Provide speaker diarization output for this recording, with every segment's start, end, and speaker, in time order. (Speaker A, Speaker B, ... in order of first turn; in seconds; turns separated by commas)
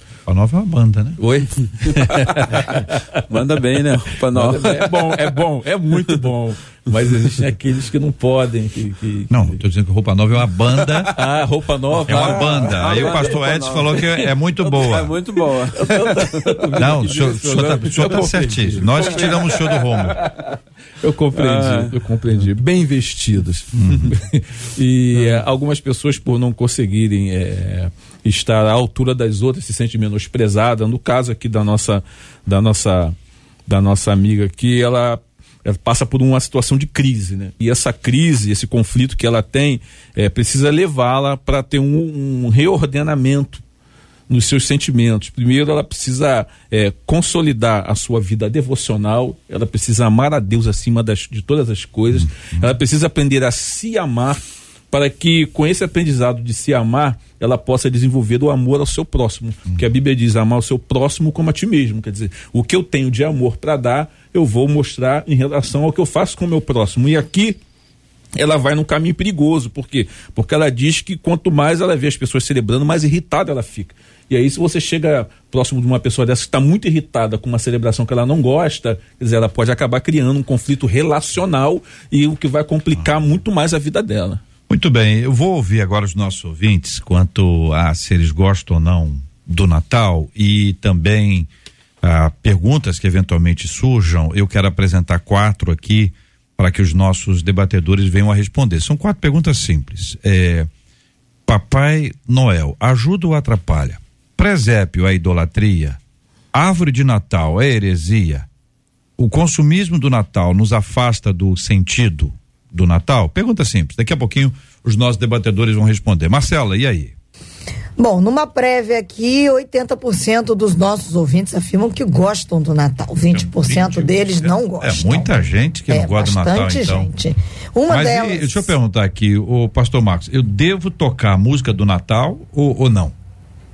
Speaker A: 0.3-1.2, Speaker B: 1.2-3.2, Speaker C: 3.3-5.4, Speaker B: 4.3-9.6, Speaker A: 9.3-11.1, Speaker B: 10.9-13.3, Speaker A: 12.0-15.1, Speaker C: 12.1-18.3, Speaker B: 15.7-19.7, Speaker A: 16.8-20.2, Speaker C: 18.9-20.3, Speaker B: 21.0-33.1, Speaker C: 21.3-22.0, Speaker A: 23.8-24.1, Speaker C: 25.1-25.4, Speaker B: 33.6-43.6, Speaker B: 44.3-67.6, Speaker A: 52.2-52.7, Speaker B: 68.3-84.4, Speaker A: 84.7-91.5, Speaker A: 92.0-100.7, Speaker A: 101.5-106.0, Speaker A: 106.5-108.5, Speaker A: 109.2-117.1, Speaker D: 118.0-128.7, Speaker A: 123.3-127.1, Speaker A: 127.9-133.1